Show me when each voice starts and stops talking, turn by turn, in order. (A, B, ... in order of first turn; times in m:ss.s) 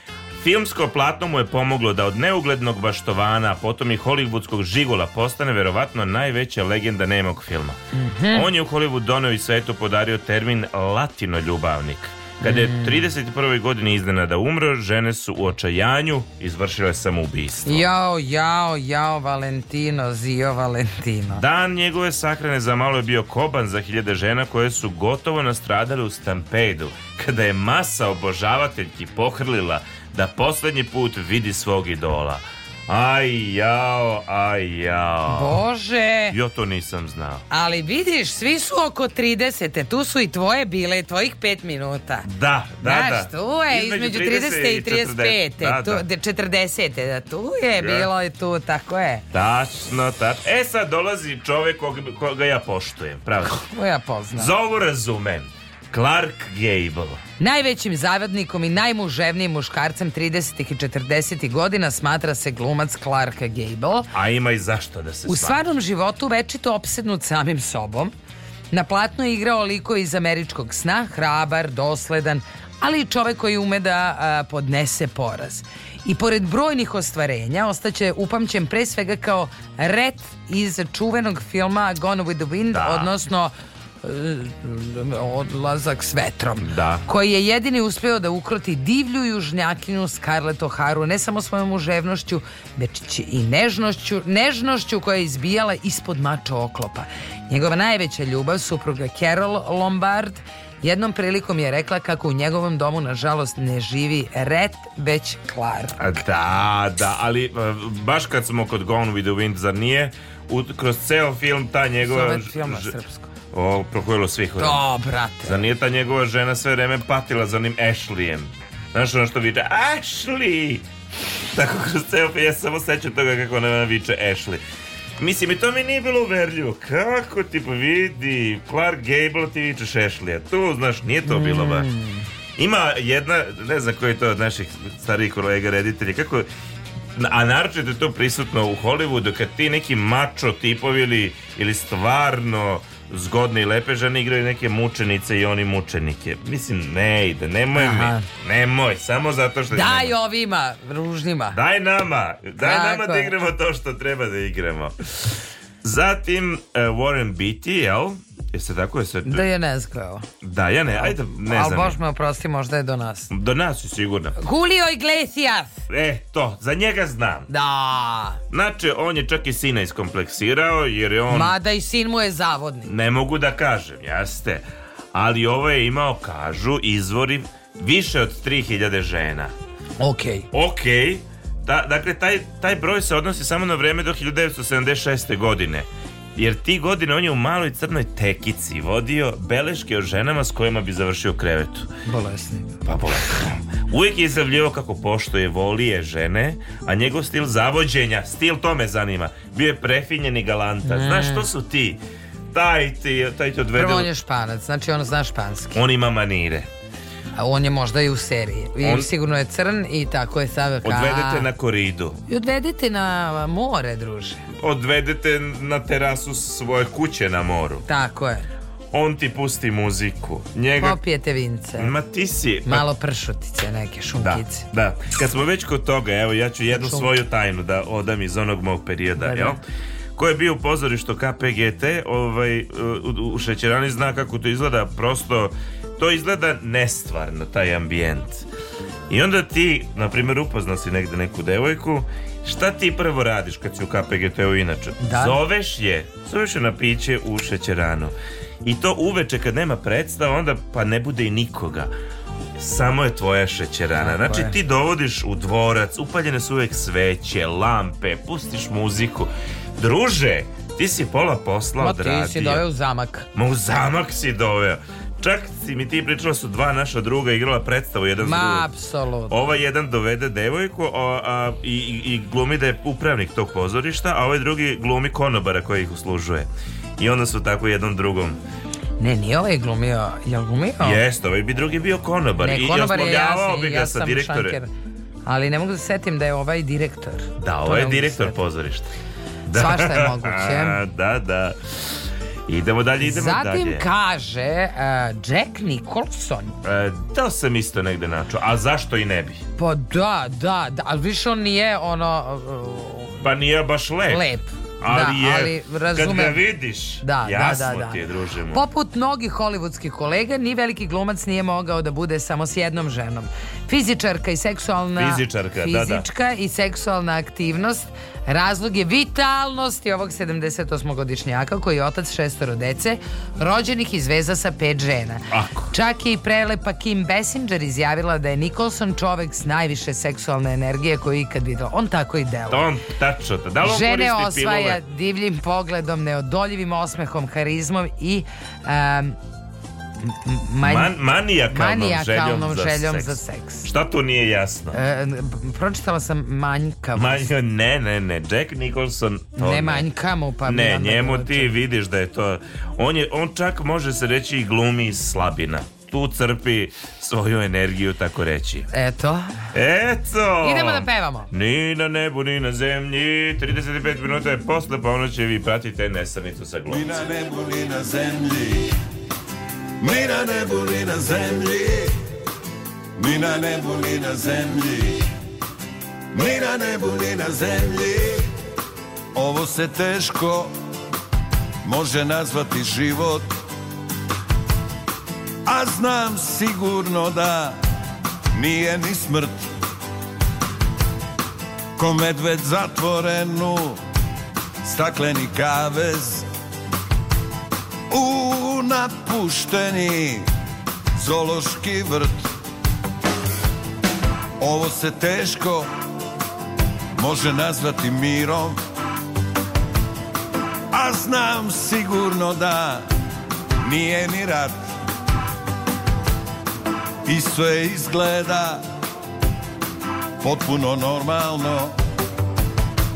0:00.4-0:07.8 A
0:07.9-0:08.5 B
0:08.3-0:17.9 A
0:12.4-0:13.1 B
0:17.7-0:21.4 B
0:21.3-0:35.6 A
0:35.3-0:36.4 B
0:36.3-0:37.4 A
0:37.5-0:42.3 B
0:42.3-0:46.1 A
0:42.8-0:49.2 B
0:47.8-0:48.1 A
0:49.3-0:53.7 A
0:53.5-0:54.5 B
0:54.4-0:57.2 A
0:57.4-1:04.1 B
1:04.1-1:05.6 A
1:05.3-1:08.1 B
1:08.7-1:46.0 B
1:22.7-1:23.1 A
1:26.6-1:27.0 A
1:46.0-1:52.9 A
1:52.0-1:53.3 B
1:53.5-1:54.8 A
1:54.6-1:55.6 B
1:55.4-2:00.9 A
2:01.5-2:04.6 A
2:05.2-2:11.9 A
2:11.2-2:12.3 B
2:12.6-2:16.5 A
2:17.2-2:30.1 A
2:27.8-2:28.3 B
2:29.7-2:31.6 B
2:31.5-2:35.3 A
2:32.6-2:33.4 B
2:35.8-2:39.4 A
2:39.3-2:40.3 B
2:40.4-2:42.0 A
2:41.0-2:43.3 B
2:43.3-2:44.4 A
2:44.4-2:45.8 B
2:45.9-2:47.5 A
2:47.5-2:48.4 B
2:48.5-2:51.5 A
2:51.3-2:52.9 B
2:52.9-2:59.5 A
3:00.0-3:00.5 B
3:00.5-3:11.9 A
3:12.0-3:12.8 B
3:12.8-3:22.0 A
3:20.9-3:21.5 B
3:22.5-3:24.1 A
3:23.8-3:25.8 B
3:25.8-3:26.7 A
3:27.4-3:31.5 B
3:28.8-3:29.1 A
3:30.8-3:32.2 A
3:32.3-3:34.4 B
3:34.6-3:37.8 A
3:37.8-3:38.5 B
3:38.9-3:41.0 A
3:40.8-3:41.9 B
3:41.8-3:42.9 A
3:42.7-3:44.7 B
3:44.2-3:49.6 A
3:46.7-3:47.1 B
3:49.2-3:49.6 B
3:50.2-3:58.5 A
3:59.1-4:11.9 A
4:05.0-4:05.4 B
4:12.6-4:22.6 A
4:14.0-4:14.5 B
4:21.8-4:23.3 B
4:23.4-4:28.7 A
4:28.2-4:29.4 B
4:29.3-4:38.4 A
4:39.0-4:41.0 B
4:40.8-4:44.6 A
4:42.4-4:44.7 B
4:45.3-4:48.4 B
4:47.4-4:48.9 A
4:49.5-4:51.6 A
4:49.5-4:50.8 B
4:52.5-4:53.8 A
4:53.0-4:56.6 B
4:56.6-4:59.4 A
4:59.6-5:03.2 B
5:03.2-5:04.2 A
5:04.1-5:06.4 B
5:04.8-5:08.6 A
5:07.0-5:08.0 B
5:08.5-5:32.7 B
5:15.0-5:16.1 A
5:25.3-5:25.7 A
5:32.5-5:34.8 A
5:33.6-5:39.2 B
5:40.1-5:40.9 B
5:40.6-5:44.8 A
5:41.5-5:43.7 B
5:44.7-5:47.3 B
5:47.0-5:49.9 A
5:49.4-5:51.5 B
5:50.5-5:58.7 A
5:58.7-5:59.3 B
5:59.5-6:07.0 A
6:00.4-6:01.3 B
6:06.7-6:08.7 C
6:09.8-6:11.9 C
6:13.0-6:15.1 C
6:16.1-6:18.3 C
6:19.2-6:20.5 C
6:21.6-6:23.4 C
6:25.5-6:27.6 C
6:28.3-6:29.5 C
6:31.8-6:33.8 C
6:34.6-6:36.3 C
6:37.9-6:40.3 C
6:41.0-6:42.3 C
6:44.4-6:45.7 C
6:46.9-6:48.6 C
6:50.7-6:52.9 C
6:53.6-6:54.8 C
6:57.1-6:58.6 C
7:00.2-7:01.8 C